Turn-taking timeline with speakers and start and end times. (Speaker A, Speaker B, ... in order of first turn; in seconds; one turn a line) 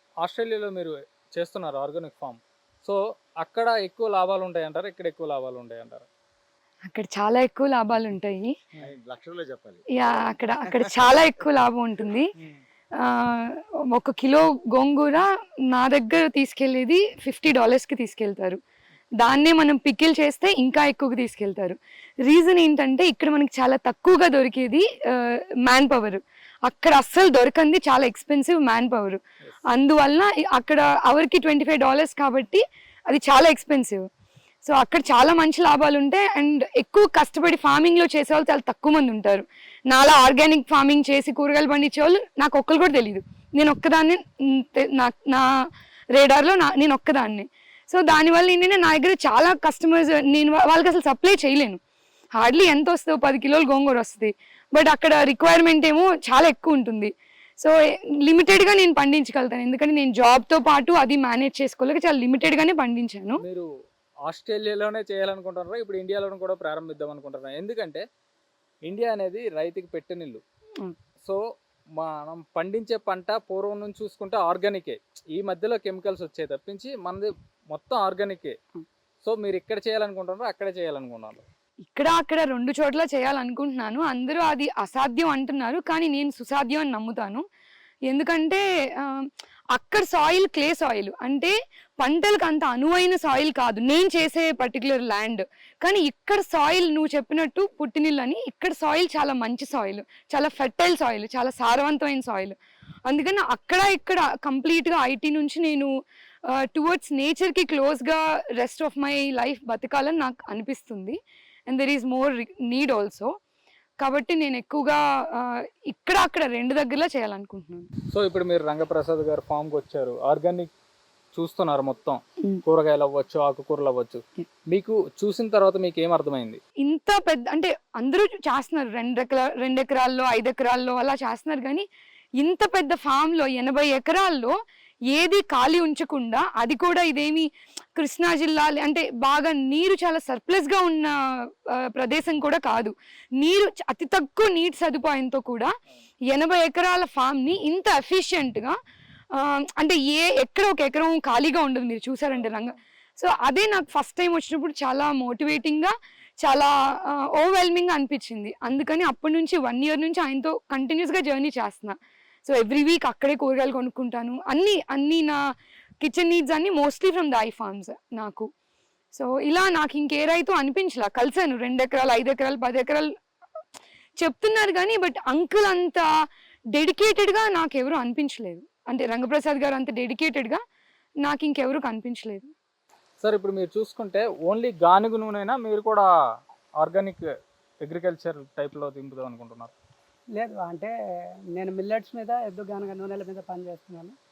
Speaker A: 0.2-6.1
Speaker B: 6.9-8.6
Speaker C: 8.8-11.3
Speaker B: 9.9-12.3
Speaker B: 13.0-18.6
Speaker B: 19.2-34.0
Speaker B: 34.6-45.5
Speaker B: 46.1-51.8
Speaker B: 52.4-63.4
Speaker A: 63.4-63.7
Speaker A: 64.3-68.0
Speaker A: 68.8-70.4
Speaker A: 72.0-78.6
Speaker A: 79.2-81.5
Speaker B: 81.9-87.4
Speaker B: 88.1-105.9
Speaker B: 106.5-111.2
Speaker B: 111.7-113.3
Speaker B: 114.0-117.9
Speaker A: 118.1-120.7
Speaker A: 121.3-126.6
Speaker B: 126.8-131.9
Speaker B: 132.4-134.5
Speaker B: 135.1-145.7
Speaker B: 146.3-148.8
Speaker B: 149.3-165.4
Speaker A: 152.4-152.6
Speaker B: 166.0-168.5
Speaker B: 169.2-173.1
Speaker B: 174.2-176.1
Speaker B: 176.8-180.6
Speaker B: 181.2-182.5
Speaker A: 183.2-186.1
Speaker A: 186.8-187.3
Speaker A: 187.8-189.7
Speaker D: 190.4-190.9
Speaker D: 191.6-194.2